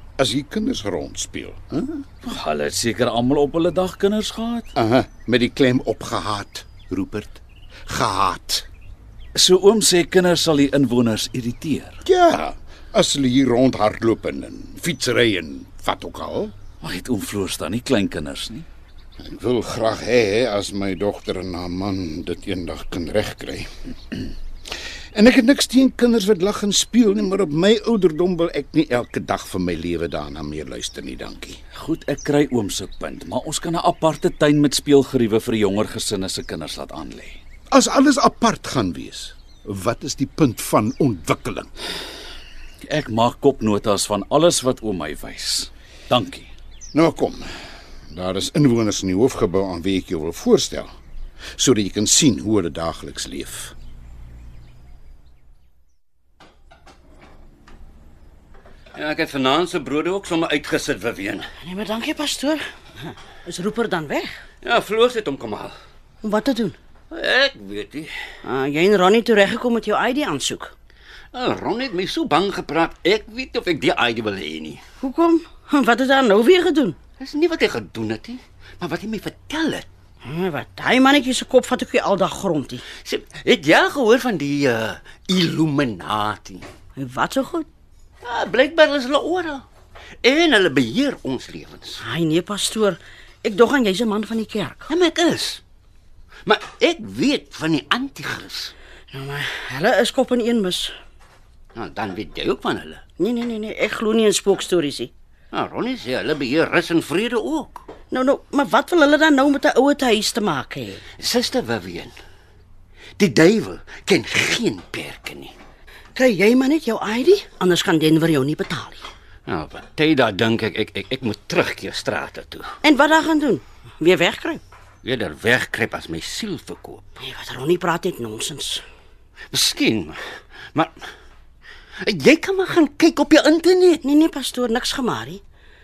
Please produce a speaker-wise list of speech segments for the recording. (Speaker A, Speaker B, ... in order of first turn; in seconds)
Speaker A: 0.2-2.0, 4.7-8.7, 12.0-16.5, 19.2-23.7, 25.1-31.6, 37.7-41.7, 46.9-47.5, 48.1-50.9, 51.6-53.7
Speaker B: 2.2-4.7, 9.3-12.0, 16.8-18.6, 31.7-37.4, 42.9-46.5
Speaker C: 58.9-61.5, 64.6-65.8, 67.1-68.1, 71.3-74.8, 77.2-79.9, 83.0-86.7, 88.2-89.6, 90.2-92.0, 94.9-95.6, 96.5-98.7, 101.7-103.0, 105.5-107.8, 111.2-112.1, 113.2-115.5, 119.5-122.7, 125.0-127.0, 129.5-130.2, 132.0-134.0
Speaker D: 61.6-64.3, 66.2-66.8, 68.4-70.7, 75.0-77.0, 80.2-82.8, 87.0-87.7, 92.0-94.8, 99.1-100.9, 103.2-105.1, 108.1-111.0, 116.1-119.0, 122.8-124.6, 127.2-128.8, 134.0-135.4